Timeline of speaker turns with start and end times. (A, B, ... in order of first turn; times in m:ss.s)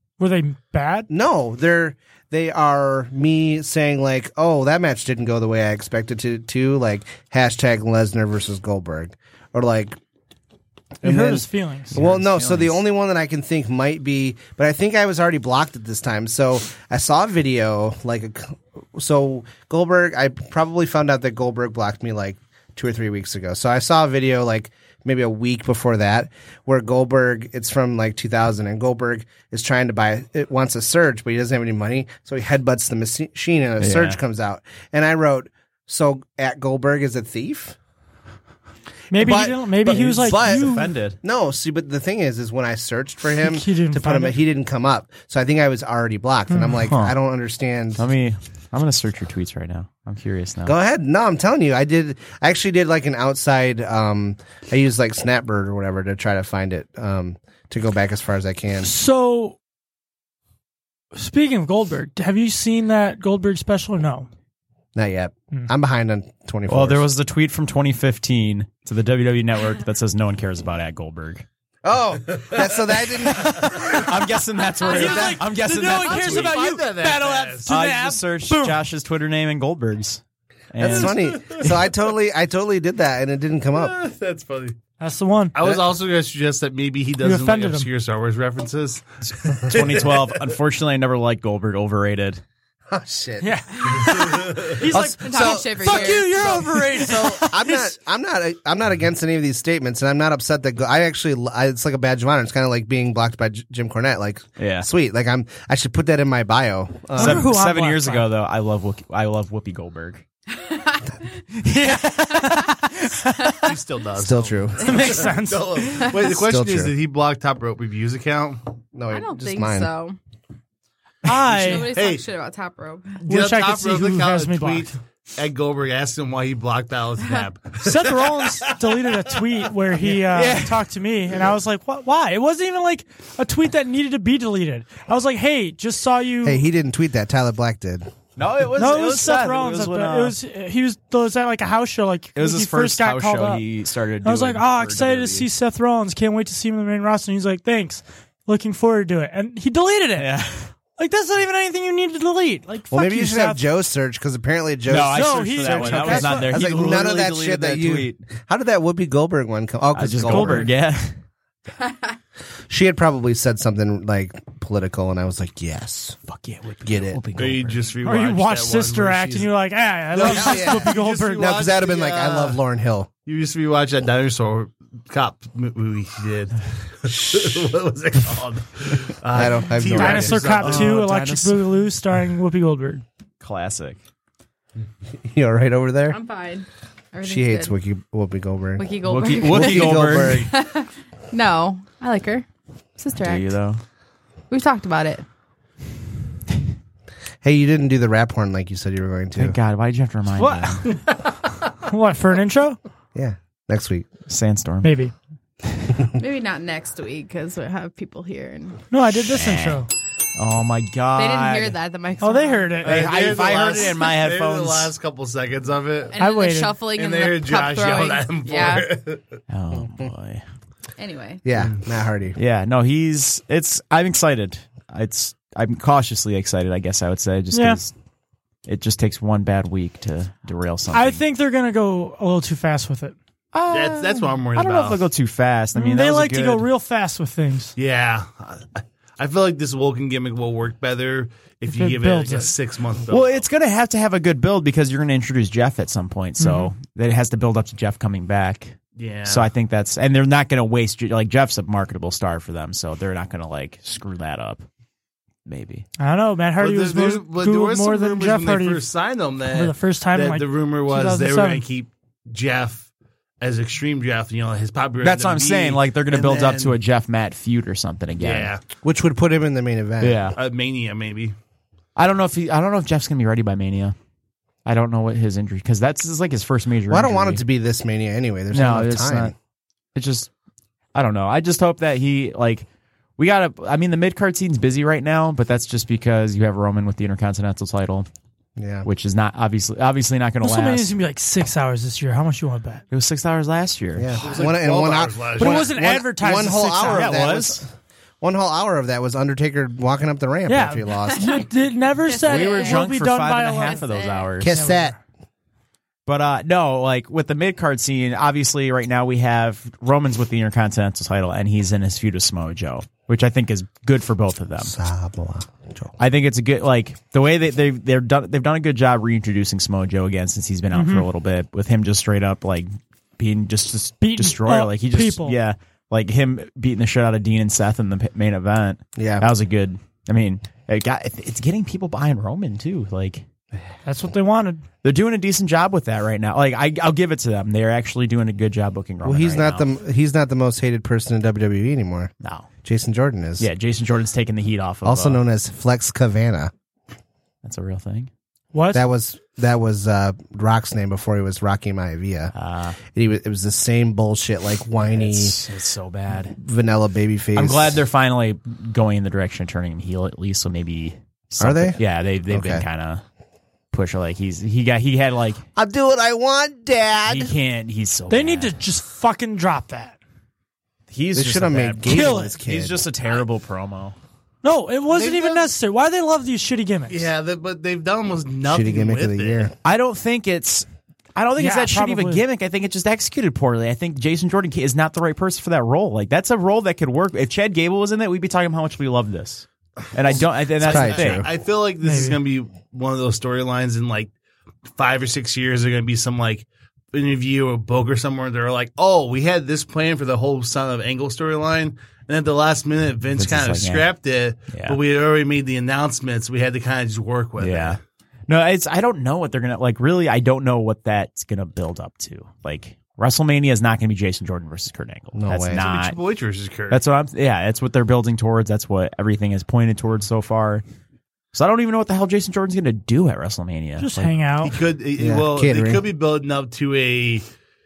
0:00.2-0:01.1 A
0:01.1-0:10.0 B
0:11.0-0:11.9 A
0:11.0-0:37.8 B
0:11.9-0:12.8 C
0:33.8-0:34.2 C
0:39.1-0:40.9 A
0:39.1-0:48.0 B
0:39.9-0:41.2 C
0:43.4-0:44.4 A
0:46.5-0:46.8 A
0:46.8-0:47.1 C
0:48.0-0:50.7 C
0:50.6-0:58.9 B
0:58.8-0:59.6 A
1:01.1-1:04.3 A
1:04.9-1:07.0 B
1:06.7-1:11.4 C
1:11.8-1:14.0 B
1:13.2-1:16.7 C
1:14.8-1:18.8 A
1:14.9-1:15.4 B
1:15.9-1:17.7 D
1:17.7-1:21.2 C
1:20.8-1:24.0 B
1:20.8-1:21.9 D
1:23.7-1:24.8 D
1:25.0-1:25.5 A
1:25.5-1:30.4 D
1:27.2-1:27.9 A
1:29.2-1:32.4 C
1:32.9-1:47.5 B
1:33.4-1:37.9 A
1:34.9-1:36.8 E
1:44.6-1:44.9 C
1:47.1-1:48.3 A
1:47.1-1:50.2 C
1:50.5-1:51.2 E
1:51.6-1:53.4 C
1:53.6-1:58.7 D
1:54.2-1:55.2 B
1:54.8-1:56.0 A
1:56.2-1:56.9 B
1:58.9-1:59.9 B
1:59.1-2:00.2 E
2:01.2-2:02.0 A
2:01.4-2:03.2 E
2:01.6-2:02.2 D
2:03.2-2:05.0 A
2:03.2-2:09.5 D
2:07.8-2:16.6 A
2:10.3-2:10.8 C
2:16.4-2:18.1 B
2:18.4-2:20.4 C
2:18.8-2:23.6 A
2:22.4-2:25.5 C
2:24.2-2:30.3 A
2:30.2-2:30.7 C
2:31.0-2:33.6 A
2:32.9-2:40.7 B
2:34.9-2:38.2 C
2:35.0-2:36.7 A
2:39.9-2:41.1 C
2:40.2-2:40.7 A
2:42.7-2:46.2 B
2:46.3-2:47.8 C
2:46.8-2:47.2 B
2:47.4-2:49.5 D
2:48.0-2:51.6 A
2:50.1-2:52.6 D
2:50.2-2:53.1 B
2:53.2-3:00.9 D
2:57.1-2:57.5 B
2:59.3-3:00.6 B
2:59.9-3:03.0 A
3:00.6-3:01.7 C
3:03.4-3:04.0 C
3:05.2-3:06.2 B
3:06.1-3:07.7 E
3:07.2-3:10.5 B
3:08.8-3:12.4 E
3:09.0-3:10.5 C
3:13.0-3:13.5 E
3:13.2-3:13.8 C
3:14.5-3:15.2 E
3:17.4-3:19.6 B
3:19.4-3:20.9 C
3:20.3-3:21.0 A
3:21.8-3:22.8 A
3:23.1-3:24.1 B
3:24.3-3:24.9 C
3:24.8-3:25.1 A
3:26.2-3:28.8 E
3:28.9-3:29.9 A
3:29.3-3:31.7 C
3:31.1-3:33.8 E
3:32.2-3:33.2 A
3:32.8-3:34.9 C
3:32.8-3:36.2 D
3:36.1-3:38.9 E
3:36.2-3:36.8 A
3:36.9-3:39.2 D
3:39.5-3:40.4 C
3:39.7-3:40.1 B
3:41.0-3:41.4 E
3:41.4-3:42.4 B
3:42.4-3:47.9 C
3:47.5-3:47.8 A
3:48.6-3:51.2 C
3:50.9-3:53.2 A
3:53.5-3:56.6 C
3:53.7-3:55.0 D
3:55.7-3:57.7 A
3:57.8-4:03.4 D
4:01.7-4:02.5 A
4:03.1-4:14.6 C
4:06.4-4:06.7 A
4:09.0-4:09.5 D
4:15.4-4:15.8 C
4:16.0-4:18.9 A
4:16.6-4:22.9 D
4:19.4-4:21.6 A
4:23.4-4:26.8 D
4:25.0-4:28.5 C
4:28.2-4:28.6 D
4:28.8-4:30.3 B
4:30.0-4:30.4 C
4:30.4-4:31.3 D
4:32.0-4:34.0 C
4:34.6-4:37.4 C
4:36.9-4:39.3 B
4:38.5-4:39.3 C
4:39.9-4:40.3 C
4:40.9-4:42.6 C
4:43.2-4:48.1 C
4:48.6-4:48.9 B
4:48.8-4:50.9 C
4:50.4-4:52.8 A
4:52.9-4:54.1 C
4:54.0-4:57.7 B
4:54.2-4:55.7 D
4:55.4-4:57.2 A
4:56.9-4:57.6 C
4:58.2-5:01.4 B
5:00.5-5:03.8 A
5:01.0-5:01.5 E
5:02.0-5:02.8 E
5:02.2-5:04.5 C
5:03.6-5:04.3 E
5:04.4-5:05.0 B
5:04.5-5:05.0 A
5:06.0-5:14.7 C
5:14.6-5:15.9 B
5:16.0-5:33.2 C
5:20.7-5:21.1 A
5:24.0-5:25.4 A
5:29.0-5:29.3 B
5:33.8-5:34.6 A
5:34.8-5:39.7 C
5:39.0-5:42.1 B
5:42.2-5:42.5 C
5:42.6-5:43.5 B
5:43.4-5:45.2 C
5:44.8-5:46.5 B
5:47.4-5:48.1 C
5:48.5-5:48.8 A
5:48.7-5:52.3 B
5:52.3-5:52.8 C
5:52.8-5:55.4 B
5:54.8-5:56.4 C
5:56.2-5:57.8 B
5:57.3-6:03.0 C
6:01.4-6:02.6 B
6:03.7-6:05.4 C
6:05.6-6:07.3 B
6:07.1-6:08.5 C
6:08.1-6:10.0 A
6:10.9-6:14.0 C
6:11.1-6:12.8 B
6:11.8-6:12.4 A
6:14.4-6:17.1 A
6:14.9-6:15.5 D
6:16.9-6:19.5 D
6:18.5-6:19.5 B
6:19.6-6:31.2 C
6:21.4-6:22.2 A
6:30.6-6:34.1 D
6:30.6-6:31.3 B
6:31.8-6:32.2 A
6:34.7-6:47.8 D
6:43.1-6:43.9 C
6:44.5-6:44.8 C
6:47.4-6:56.0 C
6:55.1-6:55.6 B
6:55.5-6:56.8 D
6:56.7-7:00.6 C
7:01.3-7:04.1 C
7:03.8-7:04.6 A
7:04.4-7:07.3 D
7:05.0-7:05.8 B